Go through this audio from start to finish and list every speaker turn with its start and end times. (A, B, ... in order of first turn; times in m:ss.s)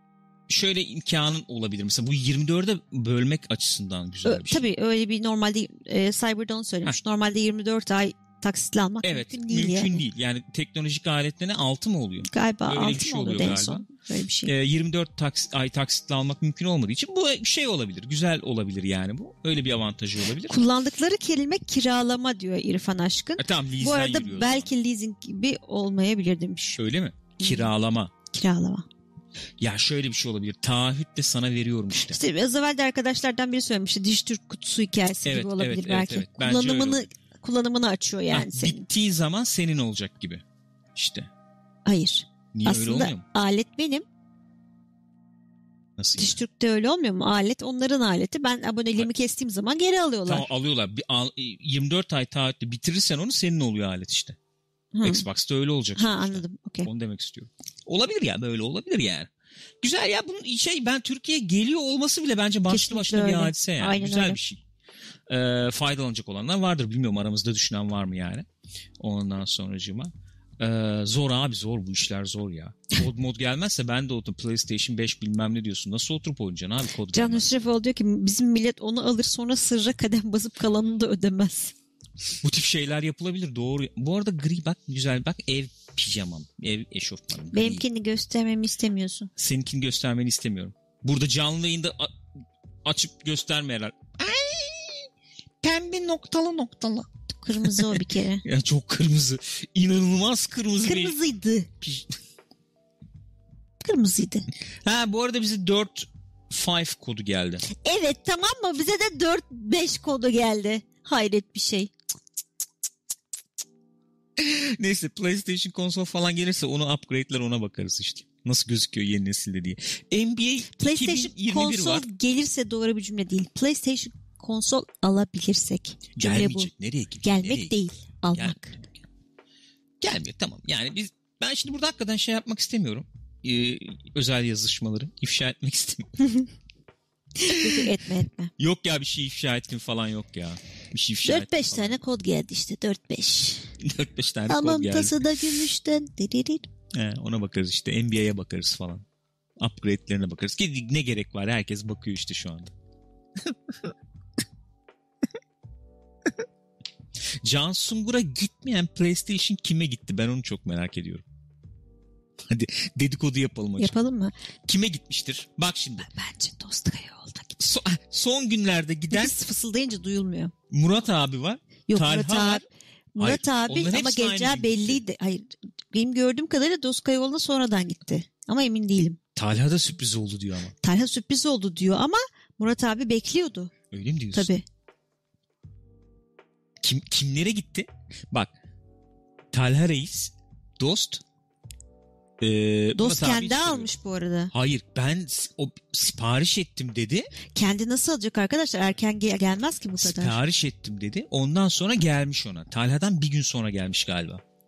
0:00.5-0:04.7 A
0:04.2-0:10.0 B
0:09.0-0:13.8 A
0:12.3-0:14.5 B
0:14.4-0:20.6 A
0:20.4-0:26.8 B
0:23.4-0:24.7 A
0:26.8-0:28.1 A
0:27.4-0:27.7 B
0:28.3-0:28.9 B
0:29.6-0:32.2 A
0:32.0-0:38.8 B
0:35.3-0:37.0 A
0:38.3-0:40.4 A
0:41.0-0:41.3 A
0:41.8-0:44.0 B
0:42.5-0:43.2 A
0:46.0-0:46.4 A
0:46.2-0:50.5 B
0:50.3-0:54.4 A
0:54.9-0:55.2 B
0:55.0-0:59.3 A
0:56.0-0:56.9 B
0:59.8-1:04.6 A
1:02.7-1:04.4 B
1:05.3-1:08.4 A
1:09.0-1:17.5 A
1:17.1-1:21.8 B
1:22.4-1:27.8 A
1:27.5-1:29.3 B
1:29.4-1:32.1 A
1:32.8-1:35.1 A
1:35.6-1:41.2 A
1:37.3-1:38.4 B
1:40.8-1:41.7 B
1:41.8-1:42.1 A
1:43.8-1:44.5 B
1:44.8-1:47.6 A
1:47.7-1:51.9 B
1:54.4-2:02.1 A
2:00.8-2:06.7 B
2:06.2-2:07.8 A
2:07.2-2:08.8 B
2:08.3-2:09.0 A
2:10.0-2:16.4 A
2:17.4-2:18.5 B
2:17.4-2:17.9 A
2:18.6-2:22.0 A
2:21.2-2:23.7 B
2:23.8-2:25.4 A
2:24.5-2:26.7 B
2:26.9-2:29.0 A
2:29.6-2:32.7 A
2:33.5-2:33.9 A
2:37.4-2:41.2 A
2:42.5-2:43.9 A
2:43.8-2:44.4 B
2:44.6-2:46.1 A
2:46.0-2:47.6 B
2:47.6-2:49.4 A
2:49.1-2:50.5 B
2:50.7-2:52.6 A
2:51.9-2:52.6 B
2:53.2-2:59.2 B
2:53.2-2:55.0 A
2:59.4-3:00.8 A
3:00.8-3:03.7 B
3:03.9-3:04.5 A
3:04.3-3:04.6 B
3:06.8-3:08.5 A
3:09.5-3:11.2 A
3:12.4-3:13.9 A
3:13.0-3:14.5 B
3:14.5-3:17.3 A
3:17.5-3:20.4 B
3:20.0-3:24.4 A